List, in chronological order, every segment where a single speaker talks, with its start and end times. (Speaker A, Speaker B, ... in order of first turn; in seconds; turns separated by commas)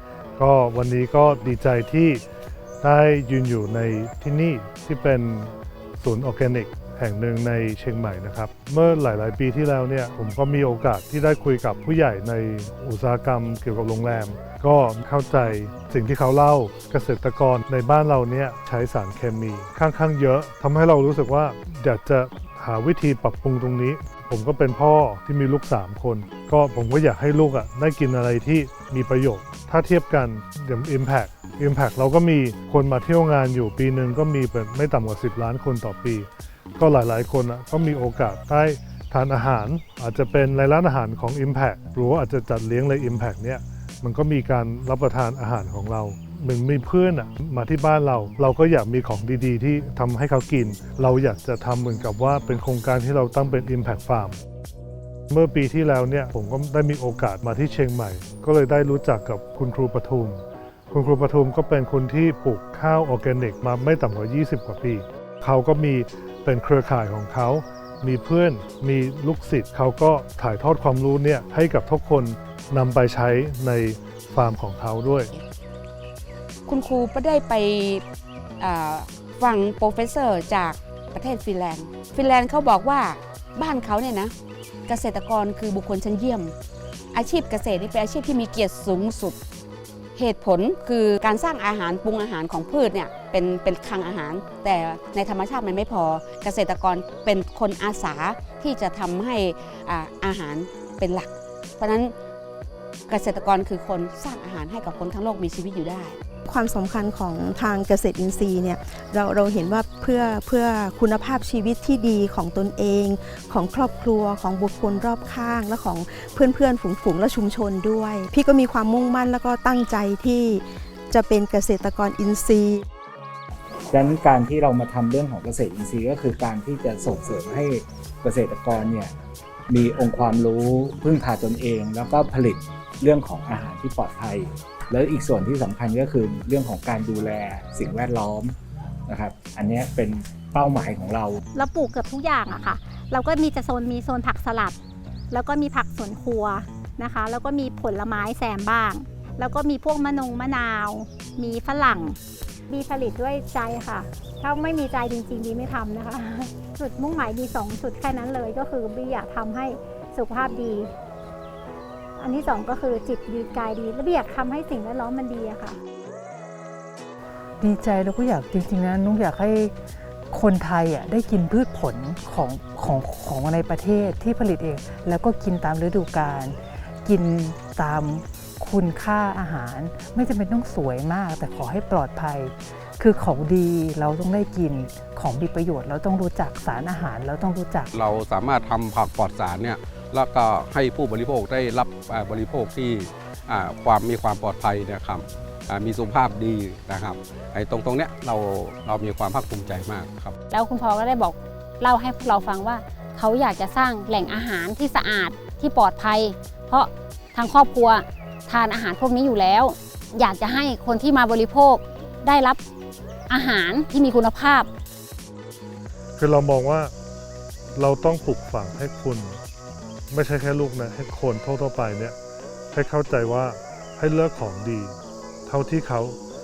Speaker A: 0.4-2.2, Speaker A: 2.8-36.3, Speaker A: 36.8-54.4, Speaker A: 55.3-60.4, Speaker A: 60.9-75.3, Speaker B: 76.7-78.0, Speaker B: 78.6-84.3, Speaker B: 84.9-86.5, Speaker B: 87.1-89.4, Speaker B: 90.2-102.1, Speaker B: 103.1-106.2, Speaker C: 106.5-122.8, Speaker D: 123.9-129.1, Speaker D: 129.7-138.5, Speaker D: 139.1-141.4, Speaker E: 141.5-144.8, Speaker E: 145.3-152.2, Speaker E: 152.7-160.9, Speaker E: 162.2-165.8, Speaker F: 167.6-169.8, Speaker F: 170.3-187.9, Speaker G: 187.9-200.3, Speaker H: 200.5-212.6, Speaker H: 213.3-214.7, Speaker A: 216.2-216.9, Speaker A: 217.8-219.4, Speaker A: 220.1-222.2, Speaker A: 222.7-226.2